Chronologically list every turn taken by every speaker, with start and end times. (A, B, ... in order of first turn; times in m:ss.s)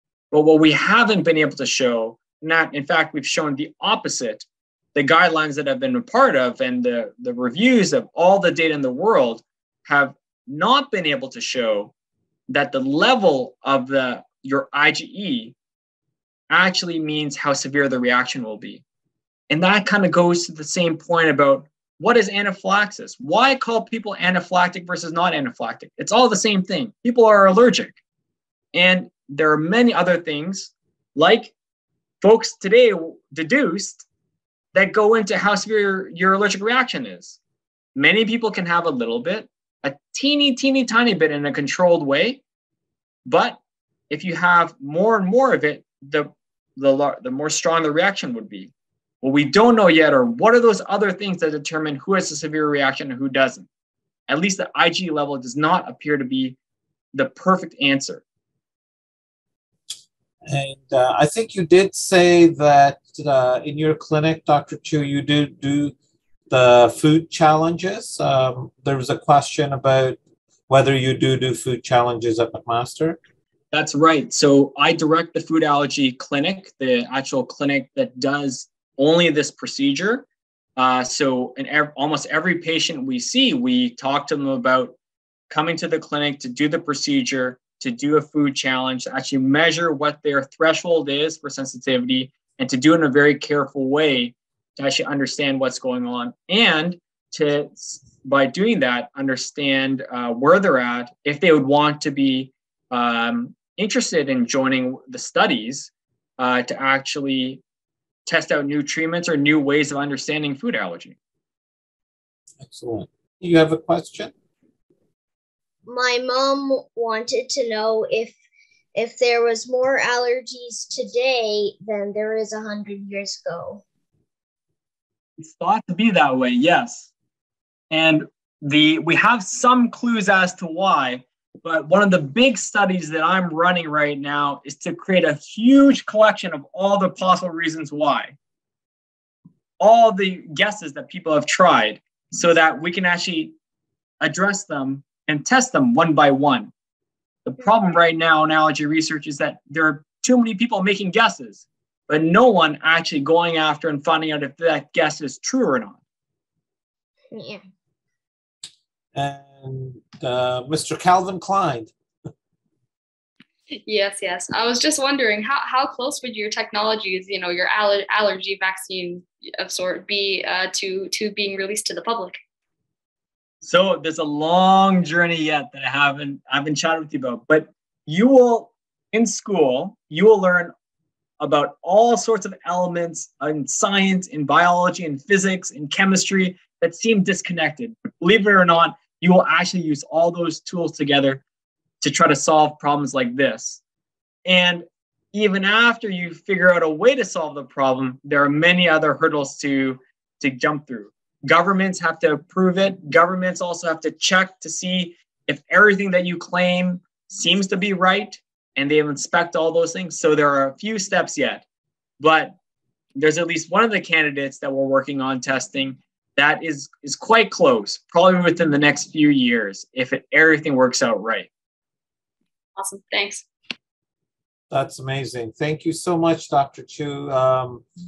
0:00.3-0:11.9 A
0:12.5-0:15.6 A
0:16.5-0:18.8 A
0:19.5-0:28.0 A
0:28.7-0:31.5 A
0:32.2-0:34.1 A
0:34.7-0:37.4 A
0:38.0-0:42.4 A
0:43.2-0:43.6 A
0:44.1-0:53.7 A
0:54.3-0:56.6 A
0:57.1-0:58.2 A
1:00.5-1:06.0 B
1:06.5-1:13.2 B
1:13.7-1:20.2 A
1:20.8-1:25.0 A
1:25.5-1:47.6 A
1:48.3-1:51.2 A
1:52.6-1:54.3 B
1:55.9-1:58.4 C
1:59.0-2:03.8 C
2:05.4-2:07.1 A
2:07.9-2:18.4 A
2:19.8-2:23.6 A
2:24.2-2:26.7 A
2:27.4-2:36.0 A
2:37.3-2:37.6 C
2:39.1-2:41.9 B
2:43.9-2:52.4 D
2:53.6-3:00.7 A
3:01.4-3:11.4 A
3:12.0-3:13.8 A
3:14.4-3:31.6 A
3:32.2-3:32.6 A
3:33.2-3:41.5 A
3:42.8-3:43.4 D
3:44.7-3:47.8 B